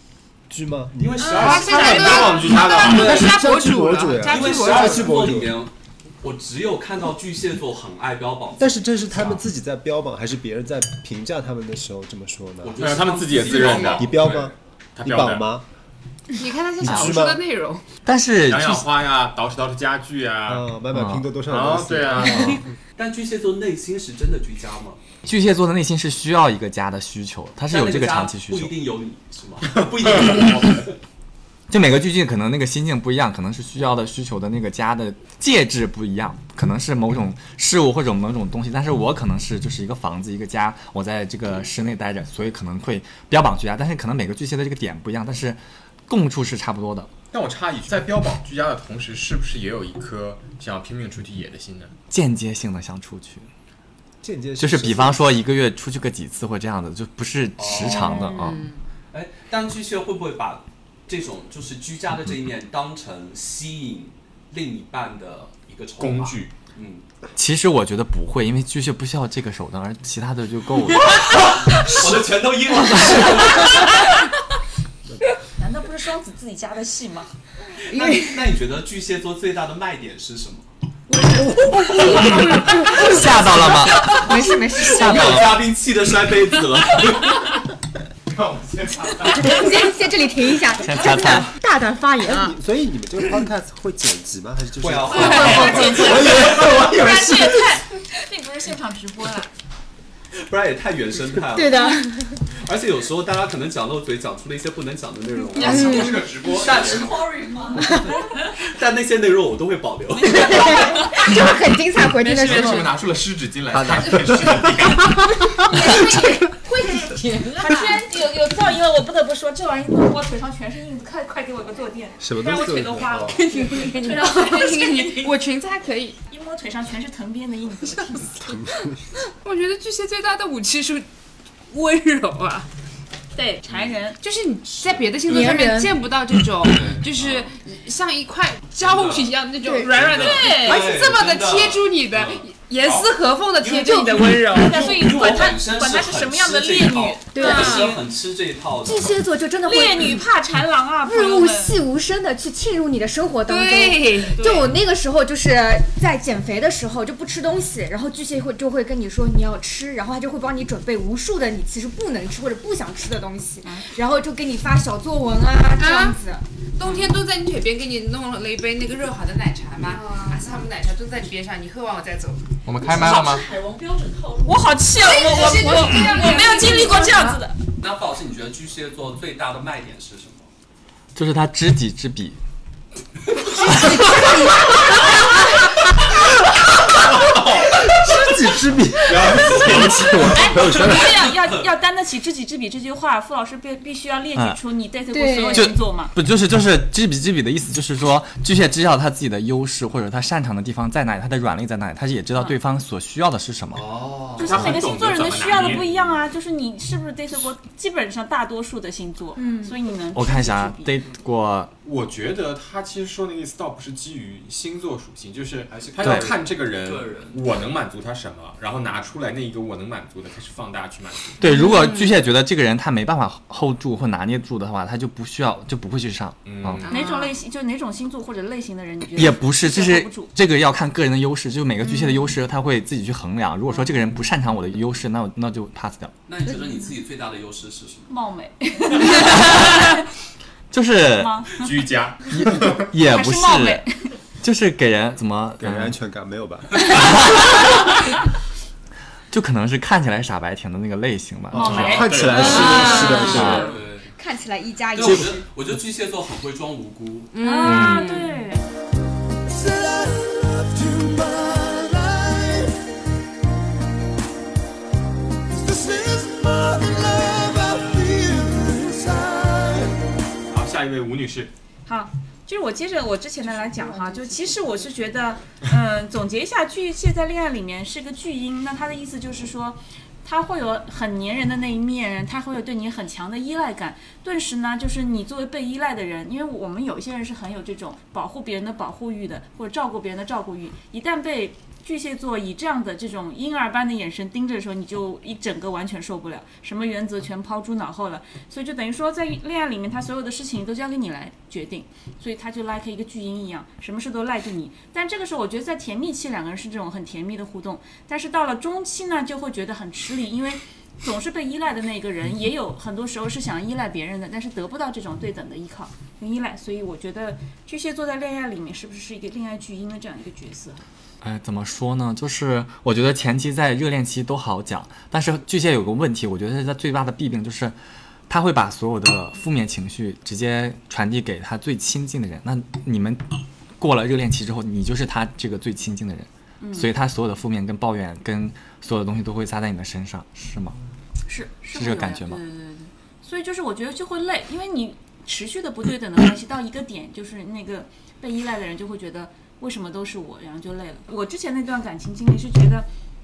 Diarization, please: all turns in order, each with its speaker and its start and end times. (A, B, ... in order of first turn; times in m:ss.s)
0:00.5-0:05.6 A
0:01.0-0:03.4 B
0:01.2-0:05.2 C
0:01.4-0:03.2 D
0:04.2-0:09.0 B
0:08.6-0:15.6 A
0:12.6-0:14.5 B
0:12.8-0:14.4 D
0:15.0-0:15.5 D
0:16.4-0:17.8 C
0:16.8-0:17.4 A
0:16.8-0:17.1 E
0:18.0-0:18.9 E
0:18.5-0:20.7 D
0:20.4-0:22.7 A
0:20.9-0:21.3 E
0:21.5-0:22.6 D
0:23.0-0:25.0 B
0:25.2-0:28.7 E
0:27.7-0:31.0 B
0:31.7-0:47.1 E
0:47.3-0:51.9 D
0:52.1-0:53.5 E
0:54.2-0:55.3 A
0:54.6-0:58.6 E
0:57.6-0:58.3 B
0:58.2-0:58.8 C
0:59.1-1:07.0 B
1:06.0-1:06.5 D
1:07.4-1:11.2 E
1:11.1-1:13.9 B
1:13.5-1:14.3 F
1:15.4-1:17.3 F
1:17.8-1:20.7 B
1:17.9-1:18.4 G
1:21.3-1:25.6 G
1:21.4-1:22.9 F
1:22.0-1:22.3 B
1:22.8-1:25.6 E
1:22.9-1:27.5 B
1:28.3-1:29.9 D
1:29.3-1:32.6 G
1:30.8-1:31.5 E
1:32.2-1:37.7 A
1:34.8-1:36.9 B
1:35.1-1:39.5 F
1:35.4-1:35.7 C
1:35.4-1:35.9 G
1:40.3-1:50.9 B
1:41.5-1:42.4 G
1:45.5-1:46.3 G
1:45.6-1:47.3 D
1:47.3-1:48.4 F
1:50.2-1:51.3 F
1:50.2-1:53.0 G
1:52.1-1:55.5 D
1:53.7-1:54.7 A
1:55.6-1:57.6 G
1:55.8-1:56.2 F
1:57.1-1:57.8 C
1:57.3-2:05.4 F
2:02.2-2:03.4 A
2:03.3-2:06.2 C
2:06.3-2:08.5 F
2:08.4-2:08.9 A
2:09.4-2:11.0 C
2:11.7-2:12.7 C
2:13.3-2:14.2 F
2:13.7-2:14.0 B
2:14.2-2:25.0 C
2:14.8-2:15.6 B
2:15.2-2:16.0 G
2:16.6-2:17.5 B
2:18.8-2:19.3 B
2:19.6-2:19.9 G
2:19.8-2:23.1 B
2:20.1-2:20.9 F
2:23.6-2:29.2 B
2:23.7-2:28.0 F
2:27.3-2:27.9 G
2:28.8-2:30.3 G
2:29.6-2:31.8 F
2:31.0-2:46.4 G
2:33.5-2:34.4 C
2:34.4-2:34.7 F
2:45.8-2:46.2 C
2:46.8-2:52.4 C
2:46.8-2:47.2 F
2:49.9-2:50.4 G
2:52.6-2:53.4 D
2:52.9-2:53.4 F
2:53.1-2:54.4 G
2:54.3-2:57.6 F
2:55.0-2:57.3 C
2:56.7-2:57.2 G
2:57.8-3:00.5 B
3:01.1-3:02.4 E
3:03.5-3:04.9 G
3:07.3-3:07.6 D
3:07.6-3:11.3 A
3:09.0-3:10.6 D
3:10.3-3:16.1 F
3:10.9-3:11.7 B
3:14.3-3:14.6 E
3:15.1-3:15.7 G
3:15.5-3:23.9 E
3:23.7-3:24.8 B
3:24.4-3:26.2 D
3:24.4-3:31.0 F
3:29.4-3:29.8 G
3:30.1-3:31.7 E
3:31.8-3:41.4 D
3:35.7-3:37.4 B
3:36.0-3:36.3 E
3:41.4-3:46.8 E
3:46.4-3:46.9 D
3:46.8-3:50.3 F
3:49.2-3:56.1 E
3:51.8-3:52.3 F
3:56.3-3:58.1 B
3:58.1-4:00.0 F
3:59.2-3:59.6 E
4:00.7-4:01.4 E
4:01.1-4:01.9 F
4:01.5-4:02.9 D
4:02.3-4:03.9 E
4:03.0-4:04.1 F
4:04.4-4:06.0 E
4:05.6-4:07.5 A
4:09.3-4:11.9 E
4:11.5-4:13.7 A
4:11.5-4:13.5 F
4:11.7-4:12.7 D
4:12.4-4:13.7 C
4:12.7-4:14.1 B
4:13.3-4:13.6 E
4:14.2-4:15.4 G
4:14.9-4:17.3 B
4:17.3-4:18.4 C
4:17.4-4:18.7 F
4:17.6-4:18.0 E
4:19.4-4:22.8 H
4:25.5-4:30.1 H
4:30.5-4:31.5 D
4:31.8-5:20.8 F
4:33.5-4:34.7 G
5:21.2-5:27.8 E
5:28.3-5:33.3 E
5:33.8-5:40.8 E
5:36.6-5:36.9 F
5:41.3-5:52.9 F
5:41.7-5:42.4 E